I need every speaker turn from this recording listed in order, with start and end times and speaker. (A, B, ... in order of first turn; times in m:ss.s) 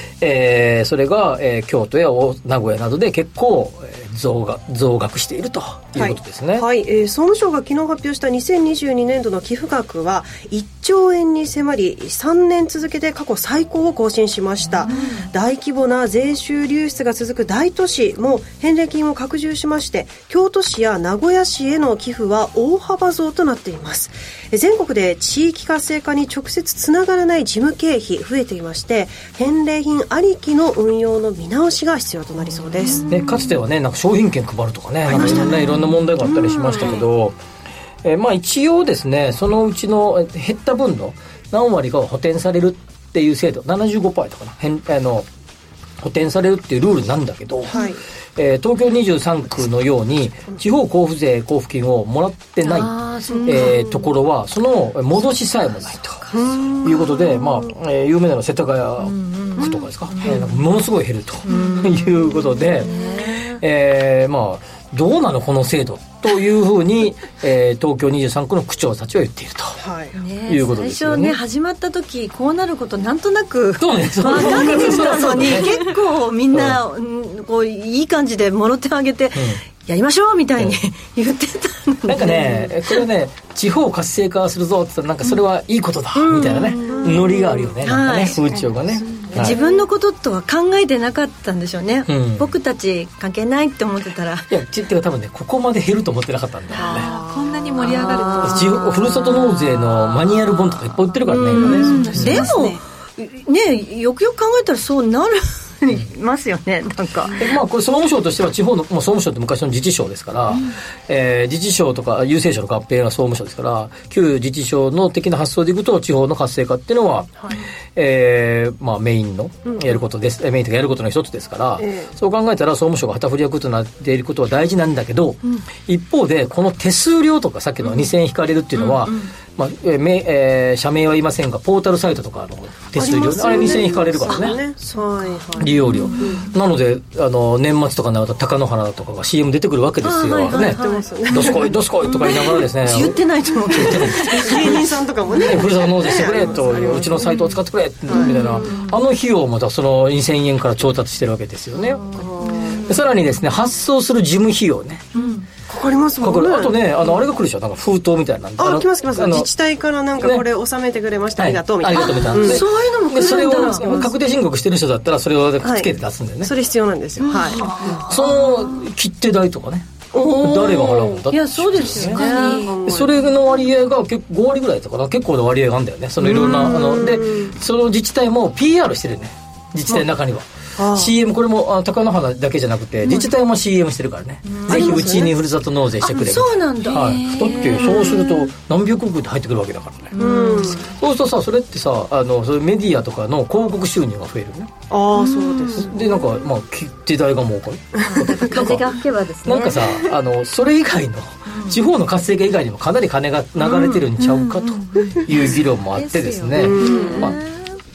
0:00.2-0:06.7 A
0:05.9-0:33.2 B
0:14.8-0:15.3 C
0:32.8-0:33.4 C
0:33.1-0:37.4 A
0:35.1-0:37.0 B
0:35.2-0:35.9 C
0:38.0-0:45.3 A
0:46.0-0:56.2 A
0:47.7-0:48.0 B
0:52.6-0:54.1 C
0:56.3-0:57.6 B
0:56.8-1:02.9 A
0:59.0-1:00.6 C
1:01.4-1:03.6 C
1:02.8-1:03.3 B
1:03.5-1:09.8 A
1:09.8-1:10.1 B
1:10.1-1:23.0 C
1:10.5-1:11.4 A
1:13.8-1:16.0 A
1:16.5-1:16.8 A
1:19.3-1:19.6 A
1:22.1-1:29.6 A
1:26.1-1:27.1 C
1:26.8-1:27.7 B
1:27.8-1:28.4 C
1:29.3-1:29.8 B
1:29.3-1:34.5 C
1:32.1-1:32.5 A
1:34.5-1:37.1 A
1:36.8-1:38.7 D
1:36.8-1:37.4 B
1:37.8-1:40.7 C
1:38.3-1:42.5 A
1:41.2-1:47.4 C
1:41.5-1:42.8 D
1:47.4-1:57.4 A
1:57.9-2:14.6 A
1:59.7-2:00.0 B
2:01.8-2:02.1 B
2:08.8-2:09.3 C
2:13.0-2:16.4 B
2:14.3-2:16.5 C
2:15.6-2:24.8 A
2:20.0-2:25.6 C
2:20.5-2:22.3 B
2:24.3-2:28.7 B
2:25.4-2:32.0 A
2:26.4-2:27.0 C
2:28.1-2:29.0 C
2:31.8-2:33.0 C
2:32.1-2:32.8 B
2:32.9-2:35.1 A
2:35.1-2:35.5 C
2:35.7-2:37.0 B
2:36.2-2:39.5 A
2:38.6-2:42.6 B
2:40.2-2:40.5 A
2:41.4-2:46.5 A
2:41.9-2:44.1 C
2:43.5-2:44.1 B
2:45.6-2:45.9 B
2:46.4-2:48.0 B
2:47.3-2:48.4 C
2:47.7-2:52.2 A
2:50.1-2:51.2 B
2:51.3-2:52.7 C
2:51.8-2:53.2 B
2:52.2-2:52.7 D
2:52.8-3:10.2 A
2:56.2-2:57.6 B
3:00.8-3:01.1 B
3:04.4-3:05.0 C
3:04.7-3:05.3 B
3:06.0-3:08.3 C
3:10.1-3:10.8 C
3:10.2-3:10.9 B
3:10.7-3:14.7 A
3:14.9-3:15.9 B
3:15.2-3:15.8 C
3:15.8-3:27.4 A
3:18.0-3:20.1 C
3:21.5-3:21.8 C
3:24.3-3:25.3 C
3:25.9-3:27.8 C
3:26.6-3:27.3 B